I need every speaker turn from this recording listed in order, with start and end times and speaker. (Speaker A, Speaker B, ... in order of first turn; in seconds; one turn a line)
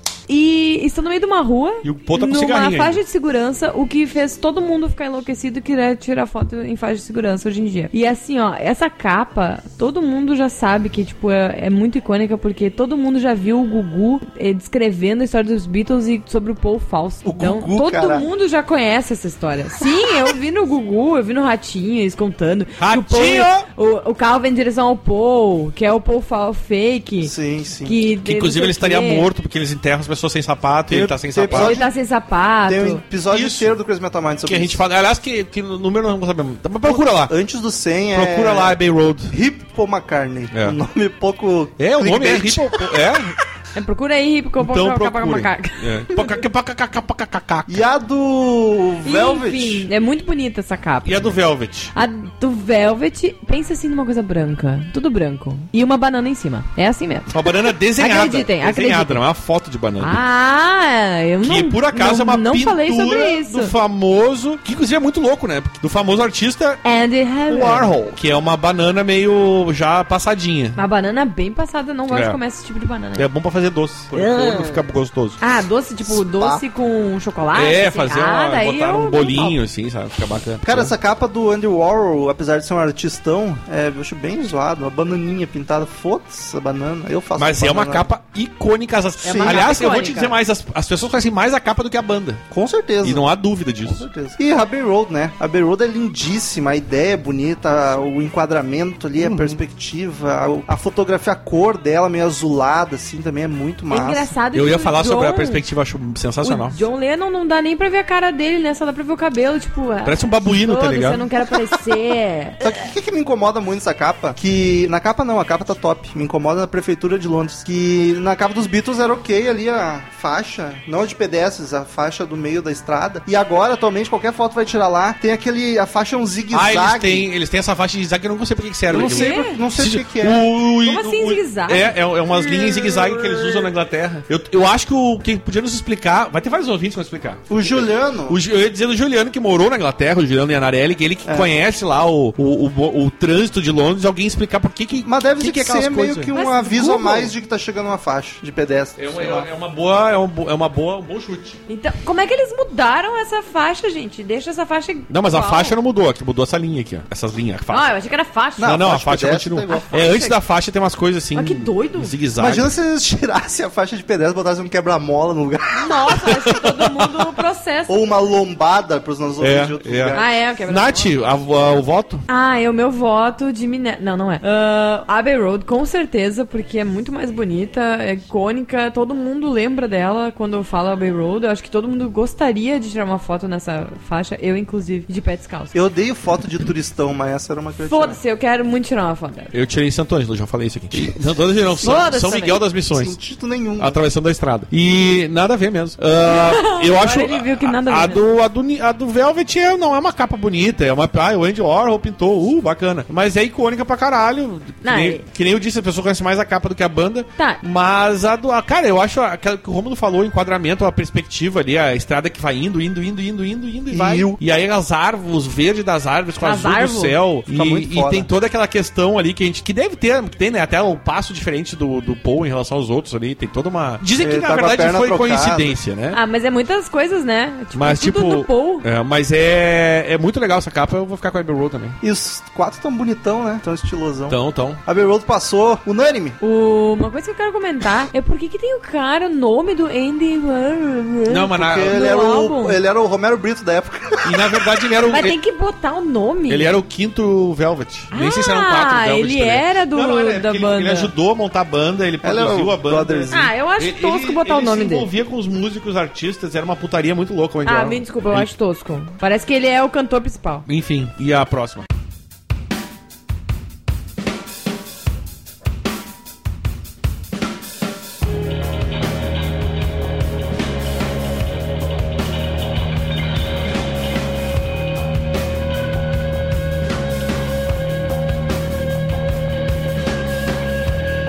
Speaker A: 0.3-29.3
Speaker B: 1.8-3.0
Speaker C: 17.2-18.3
Speaker B: 22.8-23.6
Speaker C: 27.2-27.9
Speaker B: 28.2-31.8
Speaker C: 30.9-31.9
Speaker A: 31.5-33.0
Speaker C: 32.6-34.8
Speaker B: 33.3-33.8
Speaker B: 34.4-37.3
Speaker C: 36.8-42.9
Speaker B: 38.1-39.3
Speaker B: 40.5-40.8
Speaker B: 41.8-43.3
Speaker A: 43.7-46.2
Speaker B: 44.6-47.8
Speaker C: 47.7-49.9
Speaker A: 49.0-51.3
Speaker B: 51.0-51.9
Speaker A: 51.9-59.2
Speaker B: 57.3-60.2
Speaker A: 60.0-63.7
Speaker B: 61.4-66.8
Speaker A: 66.8-67.9
Speaker B: 67.5-70.8
Speaker A: 70.8-73.3
Speaker B: 72.1-72.4
Speaker B: 73.1-75.4
Speaker A: 74.1-74.8
Speaker A: 75.4-79.6
Speaker C: 76.0-76.6
Speaker B: 77.5-80.9
Speaker C: 80.6-88.1
Speaker B: 87.4-92.4
Speaker C: 89.2-89.6
Speaker A: 89.2-90.3
Speaker C: 92.5-93.2
Speaker B: 93.0-94.0
Speaker C: 93.8-104.3
Speaker A: 103.9-105.6
Speaker B: 104.5-106.8
Speaker A: 106.4-112.7
Speaker B: 110.0-111.2
Speaker C: 112.6-127.3
Speaker B: 126.5-137.6
Speaker C: 128.9-130.4
Speaker A: 128.9-129.6
Speaker A: 130.8-133.7
Speaker C: 137.5-138.4
Speaker B: 138.3-146.3
Speaker C: 141.2-141.5
Speaker C: 145.0-149.5
Speaker A: 146.3-147.3
Speaker B: 149.0-151.6
Speaker A: 151.7-155.7
Speaker B: 155.1-157.9
Speaker A: 157.7-158.8
Speaker C: 158.6-160.3
Speaker B: 158.6-162.7
Speaker A: 159.7-160.3
Speaker A: 161.3-162.1
Speaker C: 162.4-166.0
Speaker A: 165.7-168.0
Speaker B: 166.3-167.0
Speaker C: 167.9-170.3
Speaker B: 169.4-172.2
Speaker A: 170.1-171.1
Speaker A: 172.3-185.7
Speaker C: 185.7-188.2
Speaker A: 187.8-189.5
Speaker B: 189.5-193.1
Speaker A: 191.8-192.6
Speaker C: 192.9-194.0
Speaker B: 193.8-226.2
Speaker A: 196.2-198.2
Speaker A: 204.8-205.2
Speaker C: 213.9-214.4
Speaker A: 216.4-217.2
Speaker C: 217.5-218.3
Speaker C: 224.2-225.8
Speaker A: 226.1-228.8
Speaker B: 227.7-232.0
Speaker C: 232.0-236.4
Speaker B: 234.3-234.8
Speaker A: 236.4-242.8
Speaker B: 241.3-241.9
Speaker C: 241.5-244.6
Speaker B: 244.2-245.3
Speaker A: 245.1-246.7
Speaker B: 246.5-258.5
Speaker A: 248.1-251.1
Speaker C: 252.2-253.5
Speaker A: 253.3-255.1
Speaker A: 257.6-260.6
Speaker B: 260.6-261.9